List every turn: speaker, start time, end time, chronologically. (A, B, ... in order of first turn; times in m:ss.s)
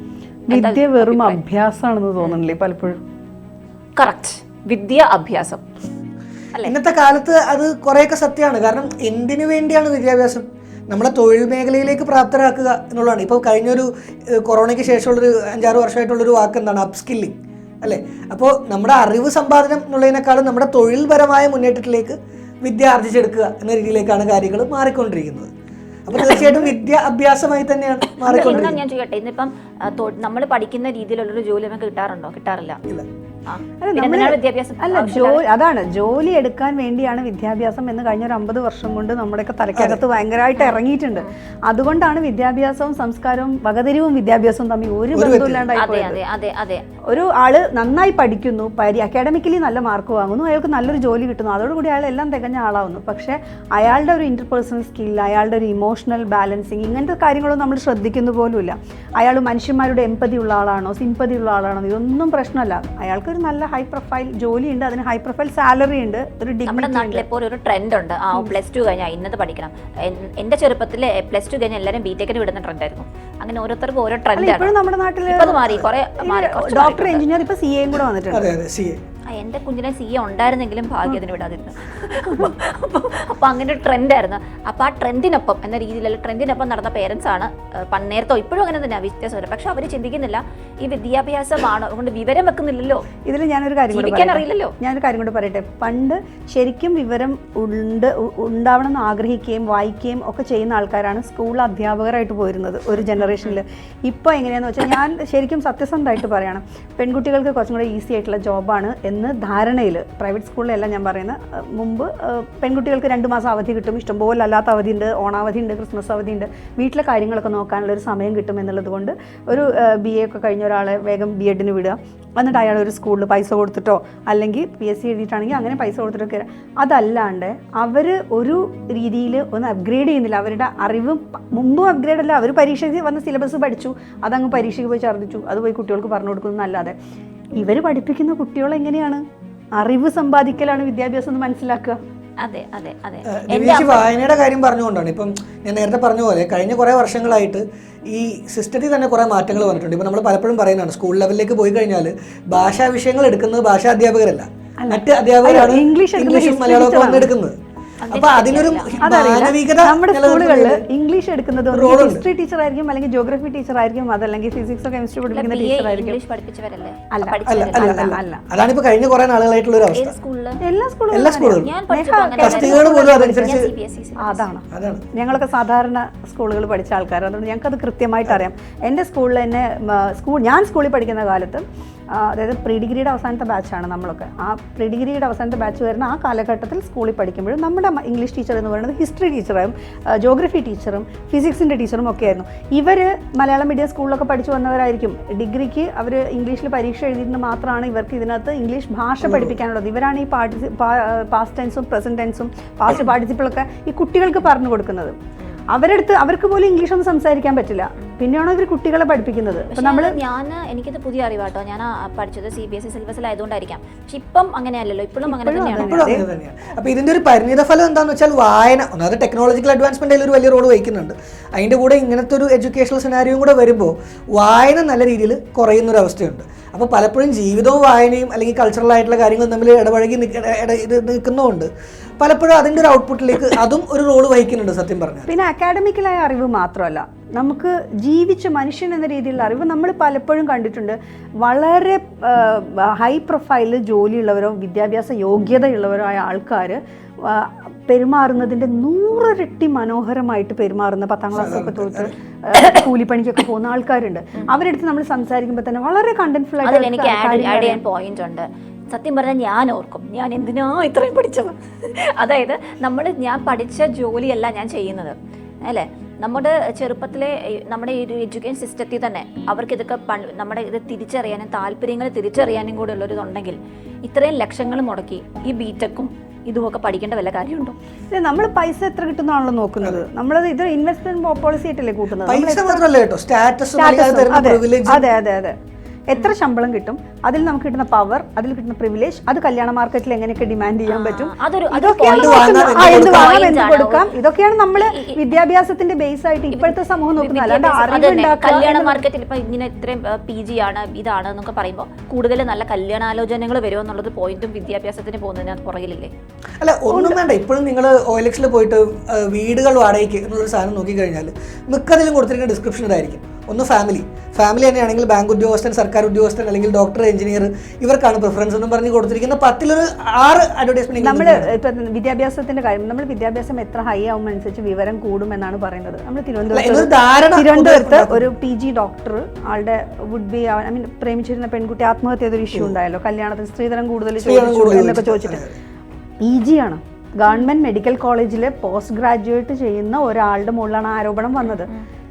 0:00.5-0:03.0 A
0:00.5-0:01.4 B
0:04.0-0:05.6 B
0:06.6-0:25.5 C
0:26.1-0:28.8 C
0:26.1-0:26.4 B
0:28.2-0:32.8 B
0:28.3-0:28.7 A
0:33.5-0:35.4 B
0:33.8-0:46.2 A
0:39.7-0:40.0 C
0:40.5-0:41.3 B
0:45.1-0:45.7 C
0:45.7-0:46.8 B
0:47.1-1:07.2 A
1:06.6-1:14.7 B
1:14.4-1:18.4 A
1:15.3-1:17.2 B
1:18.3-1:19.0 C
1:19.3-1:33.0 B
1:33.3-2:17.0 A
1:33.9-1:34.7 B
1:43.2-1:43.6 B
2:17.6-2:19.2 A
2:19.7-2:22.0 A
2:22.4-2:24.0 B
2:23.3-2:37.5 C
2:34.8-2:37.3 A
2:38.0-2:39.0 B
2:38.1-2:40.8 C
2:39.0-2:46.2 A
2:41.7-2:42.2 C
2:45.2-2:48.1 B
2:47.1-2:48.4 A
2:47.5-2:50.1 C
2:49.9-2:50.6 B
2:50.6-2:53.6 A
2:51.1-2:51.7 C
2:51.5-2:54.5 B
2:52.4-2:53.7 C
2:54.2-3:25.1 A
2:54.7-2:55.0 C
3:19.2-3:19.5 C
3:25.7-3:30.2 A
3:29.7-3:36.1 B
3:35.2-3:36.2 A
3:35.8-3:55.3 C
3:55.3-4:17.8 A
4:11.3-4:12.1 C
4:16.6-4:37.7 B
4:38.1-4:42.8 A
4:42.2-4:45.0 C
4:43.8-4:45.5 A
4:46.1-4:59.0 A
4:50.9-4:54.1 B
4:52.1-4:53.4 C
4:54.8-4:55.2 B
4:56.5-5:06.1 B
5:06.6-5:21.5 C
5:06.9-5:07.2 A
5:21.0-5:35.4 A
5:26.5-5:28.3 C
5:34.2-5:35.5 C
5:36.2-5:41.7 A